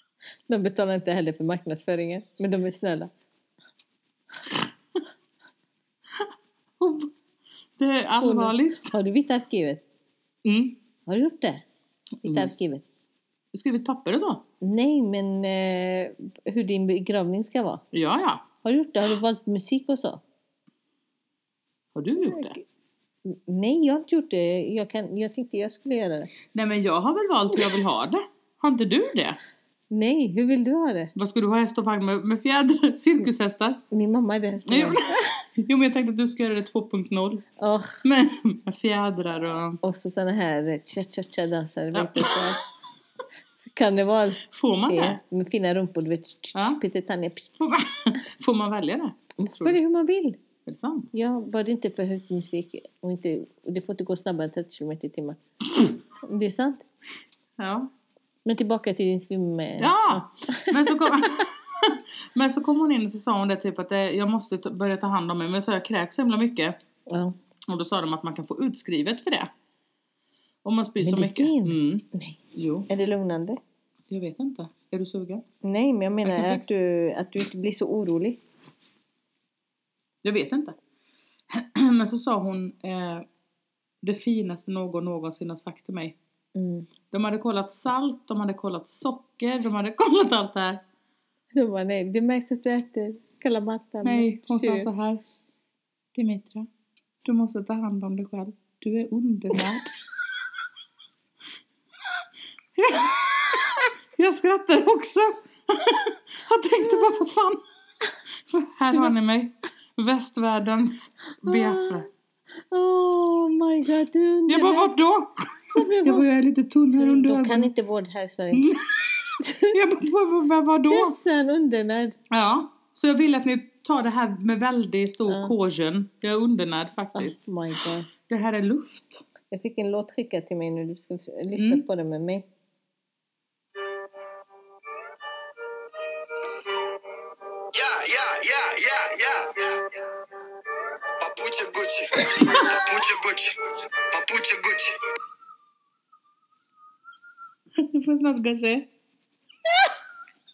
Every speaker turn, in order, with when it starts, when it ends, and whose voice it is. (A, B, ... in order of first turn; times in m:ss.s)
0:00.5-0:03.1 A
0:06.1-0:07.1 B
0:07.8-0:08.9 B
0:08.2-0:09.8 A
0:10.4-0:10.8 B
0:11.1-0:11.6 A
0:12.2-0:12.8 A
0:12.2-0:12.5 B
0:13.5-0:14.4 B
0:14.6-0:17.8 A
0:17.9-0:18.4 B
0:18.6-0:20.2 A
0:21.9-0:22.6 B
0:22.2-0:22.6 A
0:23.2-0:26.3 A
0:26.5-0:29.4 B
0:29.9-0:31.1 A
0:31.1-0:33.8 B
0:33.9-0:35.3 A
0:34.6-0:37.4 B
0:37.6-0:38.0 A
0:38.0-0:39.8 B
0:39.8-0:42.6 A
0:41.9-0:42.5 B
0:43.6-0:47.6 A
0:44.5-0:45.2 B
0:46.5-0:46.8 B
0:47.6-0:49.8 B
0:49.4-0:50.4 A
0:50.6-0:51.1 B
0:51.1-0:56.8 A
0:57.6-0:57.9 B
0:58.4-1:01.3 A
0:59.8-1:06.8 B
1:07.1-1:07.4 A
1:07.7-1:09.5 B
1:10.6-1:12.9 B
1:11.0-1:13.6 A
1:14.1-1:15.4 B
1:15.6-1:18.4 A
1:16.2-1:16.7 B
1:20.2-1:20.8 B
1:21.5-1:23.2 B
1:24.0-1:26.2 B
1:26.5-1:26.9 A
1:27.1-1:30.8 B
1:31.5-1:34.9 A
1:34.0-1:35.2 B
1:36.1-1:36.7 B
1:37.2-1:39.9 B
1:42.8-1:47.6 B
1:48.5-1:52.1 B
1:51.4-1:52.0 A
1:52.7-1:54.9 A
1:54.5-1:57.7 B
1:55.7-1:56.3 A
1:56.9-1:58.7 A
1:58.5-2:01.2 B
1:59.4-1:59.8 A
2:00.9-2:02.2 A
2:02.3-2:07.4 B
2:05.3-2:05.5 A
2:07.1-2:08.1 A
2:08.2-2:09.2 B
2:09.5-2:12.4 A
2:11.6-2:11.8 B
2:17.7-2:20.0 C
2:21.2-2:25.0 C
2:22.4-2:22.8 B
2:27.8-2:28.9 B